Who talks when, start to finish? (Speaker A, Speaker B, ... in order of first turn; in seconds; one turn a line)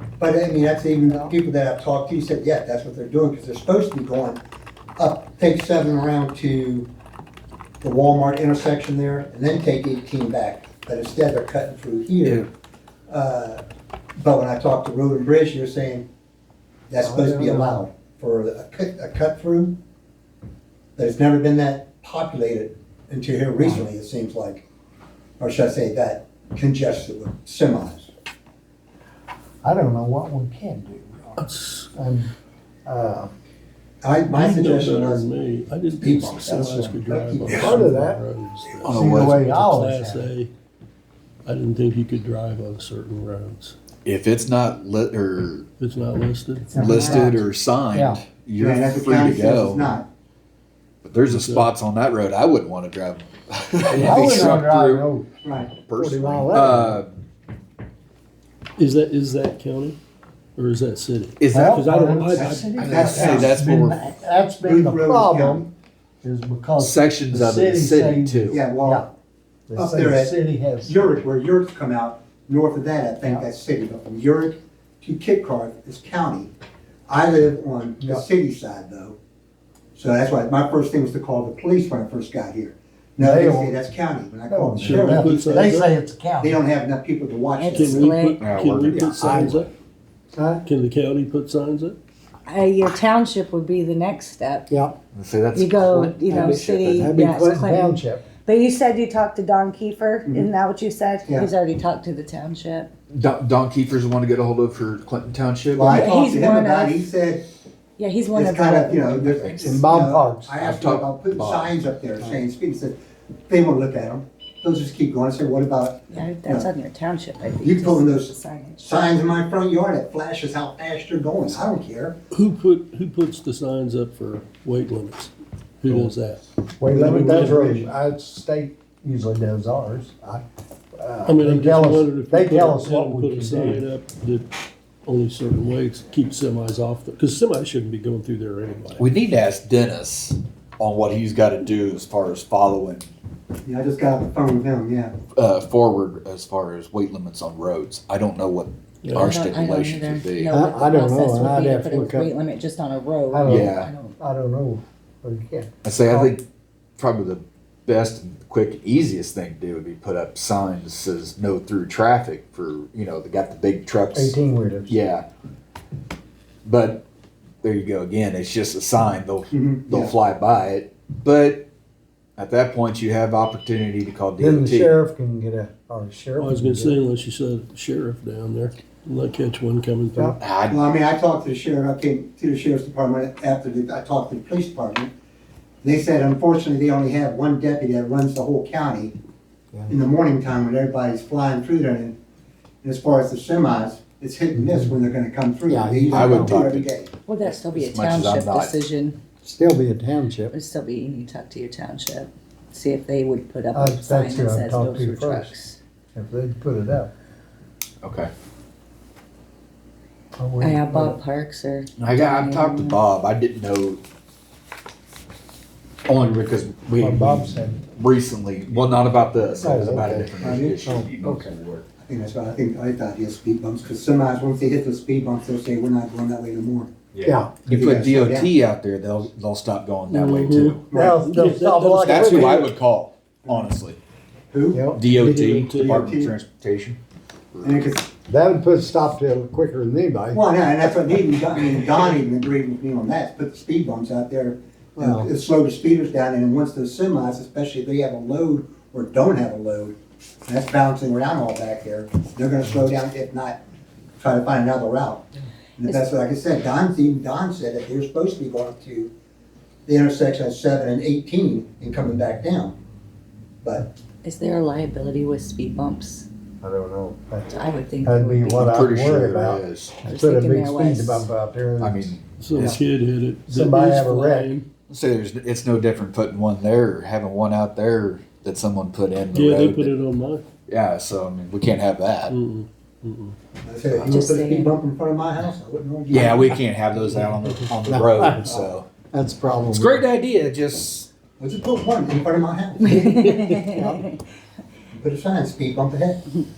Speaker A: 0.2-4.4
Speaker B: 1.0-1.3
Speaker A: 5.0-6.9
Speaker A: 7.8-12.5
Speaker C: 12.2-12.5
Speaker A: 13.1-13.6
Speaker A: 14.2-16.1
Speaker A: 16.9-19.8
Speaker B: 17.0-17.8
Speaker A: 21.0-24.6
Speaker B: 23.6-23.9
Speaker A: 25.4-28.1
Speaker B: 29.6-32.3
Speaker D: 31.4-31.9
Speaker B: 32.9-33.3
Speaker A: 34.0-35.3
Speaker D: 34.3-40.5
Speaker A: 36.0-37.9
Speaker B: 37.5-38.2
Speaker C: 38.8-39.5
Speaker B: 38.9-40.3
Speaker D: 41.5-43.8
Speaker C: 44.0-45.7
Speaker D: 45.8-46.7
Speaker B: 46.7-48.2
Speaker C: 46.7-49.9
Speaker E: 46.8-47.3
Speaker A: 48.5-50.1
Speaker C: 51.0-55.1
Speaker D: 51.3-51.7
Speaker B: 53.9-55.3
Speaker A: 55.4-55.7
Speaker C: 55.8-57.2
Speaker B: 55.9-57.0
Speaker D: 58.8-60.0
Speaker D: 60.6-63.5
Speaker C: 61.4-61.8
Speaker B: 61.5-65.7
Speaker A: 62.3-63.5
Speaker C: 62.7-64.0
Speaker A: 64.6-65.7
Speaker B: 66.2-69.1
Speaker C: 66.8-68.6
Speaker A: 68.5-69.1
Speaker B: 69.7-71.0
Speaker A: 69.8-76.5
Speaker A: 77.1-79.2
Speaker A: 80.0-85.8
Speaker B: 83.2-83.8
Speaker B: 84.5-86.6
Speaker D: 84.8-85.9
Speaker A: 86.4-88.1
Speaker E: 87.6-88.4
Speaker D: 87.7-89.7
Speaker C: 88.4-89.6
Speaker B: 89.2-89.6
Speaker B: 90.3-90.6
Speaker D: 90.6-92.0
Speaker E: 92.5-94.7
Speaker B: 94.7-95.0
Speaker C: 95.1-97.1
Speaker E: 95.5-102.9
Speaker B: 96.3-98.2
Speaker C: 103.1-106.0
Speaker A: 105.7-107.4
Speaker E: 105.9-107.0
Speaker E: 108.0-109.6
Speaker A: 108.3-113.0
Speaker C: 109.4-109.8
Speaker B: 109.6-110.8
Speaker C: 110.7-111.7
Speaker A: 113.5-116.7
Speaker E: 116.1-119.0
Speaker A: 117.6-122.2
Speaker D: 122.3-127.9
Speaker B: 126.8-130.4
Speaker B: 131.0-133.9
Speaker D: 131.2-134.5
Speaker D: 135.1-139.1
Speaker C: 139.0-143.1
Speaker A: 143.7-145.2
Speaker C: 145.3-150.5
Speaker D: 149.0-149.3
Speaker E: 149.1-154.2
Speaker B: 150.5-152.3
Speaker B: 153.3-156.3
Speaker C: 153.4-153.9
Speaker C: 155.8-156.4
Speaker C: 157.0-164.4
Speaker B: 164.1-164.9
Speaker C: 164.9-165.3
Speaker C: 166.7-167.1
Speaker C: 167.6-171.7
Speaker A: 169.5-170.2
Speaker C: 172.4-175.0
Speaker B: 174.4-177.0
Speaker D: 176.4-180.4
Speaker C: 180.4-180.9
Speaker A: 180.7-185.1
Speaker A: 185.8-189.1
Speaker A: 189.9-192.2
Speaker A: 192.8-197.1
Speaker B: 194.6-194.9
Speaker B: 195.7-196.6
Speaker C: 196.1-196.9
Speaker E: 197.3-199.2
Speaker C: 197.4-198.8
Speaker B: 199.4-200.6
Speaker E: 200.5-205.8
Speaker B: 203.7-205.5
Speaker B: 206.1-207.1
Speaker C: 208.0-208.3
Speaker B: 210.4-211.2
Speaker E: 210.6-213.0
Speaker C: 212.0-214.0
Speaker C: 216.1-221.9
Speaker B: 217.0-217.8
Speaker B: 219.6-220.3
Speaker A: 220.4-220.9
Speaker B: 220.8-221.5
Speaker A: 222.0-226.9
Speaker C: 227.1-230.9
Speaker B: 227.2-227.9
Speaker A: 227.7-228.5
Speaker D: 230.1-232.7
Speaker A: 230.9-231.3
Speaker B: 230.9-232.7
Speaker C: 232.0-234.0
Speaker A: 233.4-233.8
Speaker A: 234.5-234.9
Speaker B: 234.7-235.7
Speaker C: 234.9-237.0
Speaker D: 235.3-236.0
Speaker A: 235.7-236.4
Speaker A: 237.6-238.1
Speaker B: 238.3-240.4
Speaker A: 240.3-253.6
Speaker B: 245.0-245.3
Speaker A: 254.2-259.1
Speaker A: 259.9-262.8
Speaker A: 263.6-263.9
Speaker E: 264.2-266.3
Speaker B: 266.6-267.5
Speaker E: 267.5-268.6
Speaker B: 268.0-272.8
Speaker C: 268.4-269.9
Speaker E: 270.1-271.3
Speaker C: 271.8-272.8
Speaker D: 272.4-274.7
Speaker B: 273.5-274.5
Speaker C: 274.9-279.9
Speaker D: 279.3-280.4
Speaker C: 280.7-282.4
Speaker D: 282.3-283.4
Speaker A: 283.6-286.6
Speaker E: 284.0-284.8
Speaker C: 286.1-288.9
Speaker B: 287.2-290.0
Speaker A: 288.4-288.7
Speaker C: 289.6-291.1
Speaker A: 291.4-292.9
Speaker E: 292.8-294.2
Speaker B: 292.9-294.0
Speaker A: 294.9-296.2